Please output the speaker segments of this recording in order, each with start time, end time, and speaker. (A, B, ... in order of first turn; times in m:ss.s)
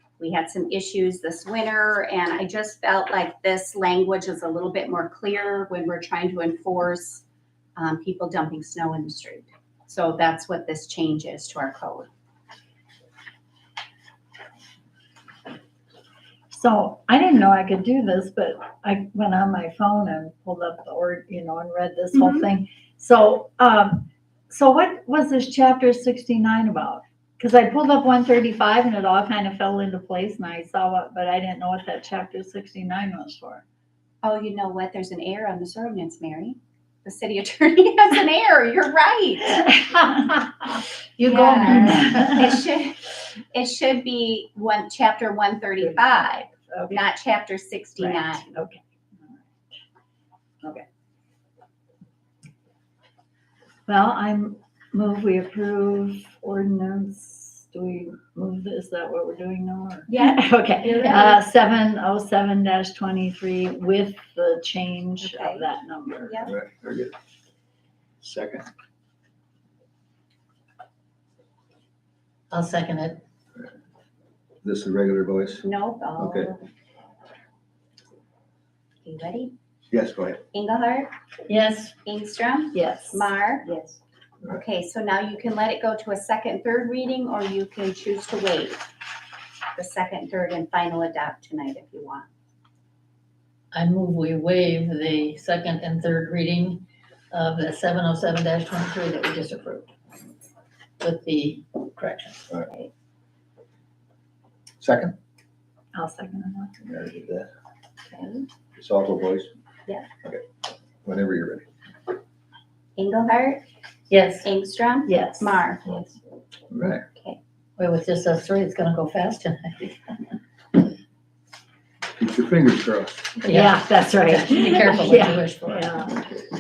0:00.2-0:07.2 A
0:07.8-0:12.1 A
0:16.5-0:33.6 B
0:22.1-0:22.5 A
0:34.2-0:39.7 A
0:39.7-0:40.8 B
0:41.2-0:42.3 C
0:41.2-0:48.5 A
0:41.7-0:42.3 B
0:46.7-0:47.0 B
0:48.0-0:49.4 B
0:53.9-1:06.3 B
1:00.1-1:01.4 A
1:05.2-1:05.7 A
1:06.2-1:06.5 A
1:06.4-1:07.1 D
1:08.2-1:08.7 D
1:12.5-1:13.2 C
1:14.6-1:15.6 D
1:15.6-1:16.7 A
1:16.2-1:16.5 D
1:19.0-1:19.5 A
1:19.9-1:20.4 D
1:20.5-1:21.1 A
1:21.5-1:21.9 C
1:22.0-1:23.9 A
1:22.7-1:23.3 B
1:24.5-1:28.8 A
1:29.7-1:32.3 A
1:33.7-1:39.9 C
1:41.0-1:42.4 C
1:44.8-1:45.1 D
1:45.9-1:46.8 B
1:46.8-1:47.5 D
1:48.1-1:48.4 A
1:48.8-1:49.5 D
1:51.0-1:51.6 D
1:53.0-1:53.6 A
1:54.1-1:54.5 C
1:54.4-1:56.2 A
1:55.0-1:55.6 B
1:56.7-1:57.0 D
1:57.8-2:00.2 C
2:02.2-2:03.4 D
2:03.4-2:06.1 C
2:03.4-2:06.2 B